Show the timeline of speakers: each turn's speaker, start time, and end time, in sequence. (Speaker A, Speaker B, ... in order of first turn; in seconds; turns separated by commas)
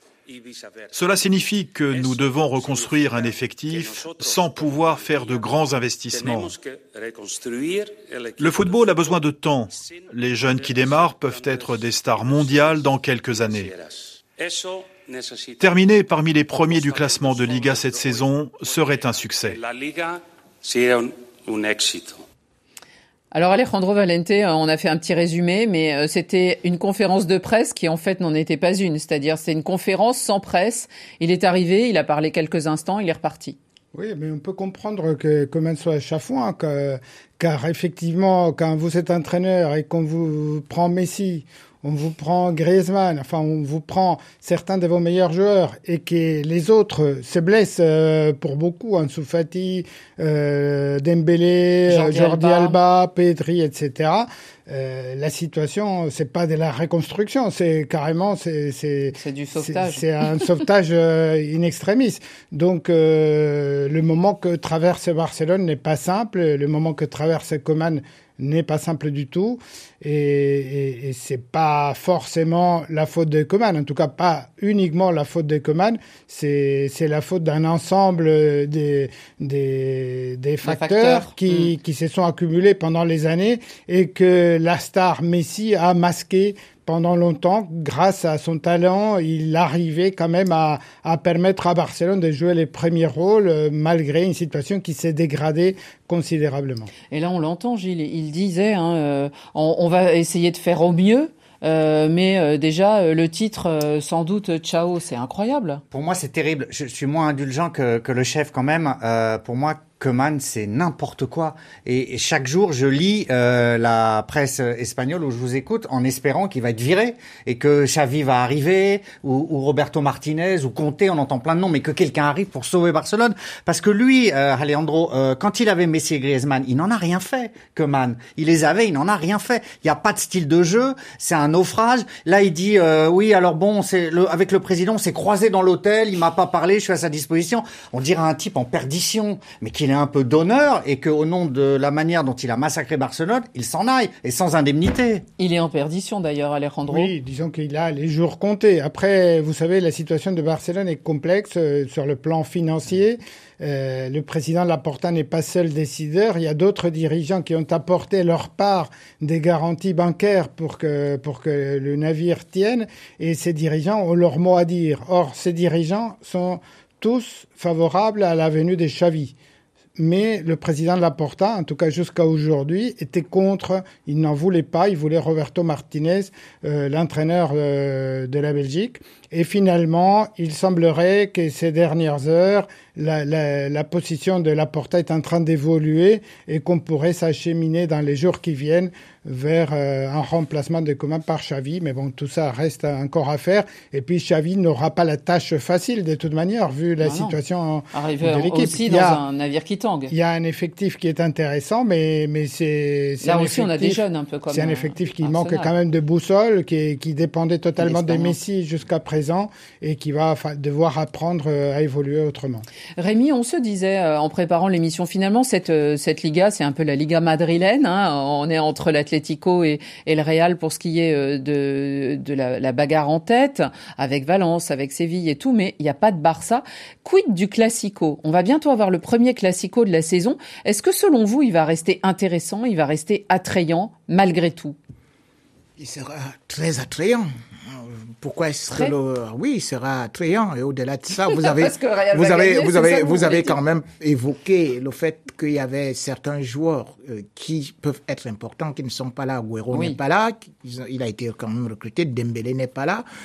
Speaker A: 0.3-15.8, Speaker B: 0.9-6.5, Speaker B: 8.4-13.7, Speaker B: 15.6-19.6, Speaker A: 16.6-22.2, Speaker C: 23.3-33.6, Speaker D: 33.9-96.9, Speaker C: 51.9-52.8, Speaker C: 59.1-60.0, Speaker C: 80.6-81.7, Speaker C: 97.1-105.8, Speaker E: 105.9-145.3, Speaker C: 145.4-147.1, Speaker D: 146.9-169.3, Speaker D: 170.0-199.2, Speaker C: 197.0-197.4, Speaker C: 197.9-200.1, Speaker D: 200.1-204.0, Speaker C: 203.2-205.7, Speaker D: 204.5-212.7, Speaker C: 207.8-208.4, Speaker C: 213.0-234.8, Speaker F: 235.8-253.1, Speaker C: 241.3-243.6, Speaker C: 249.7-250.0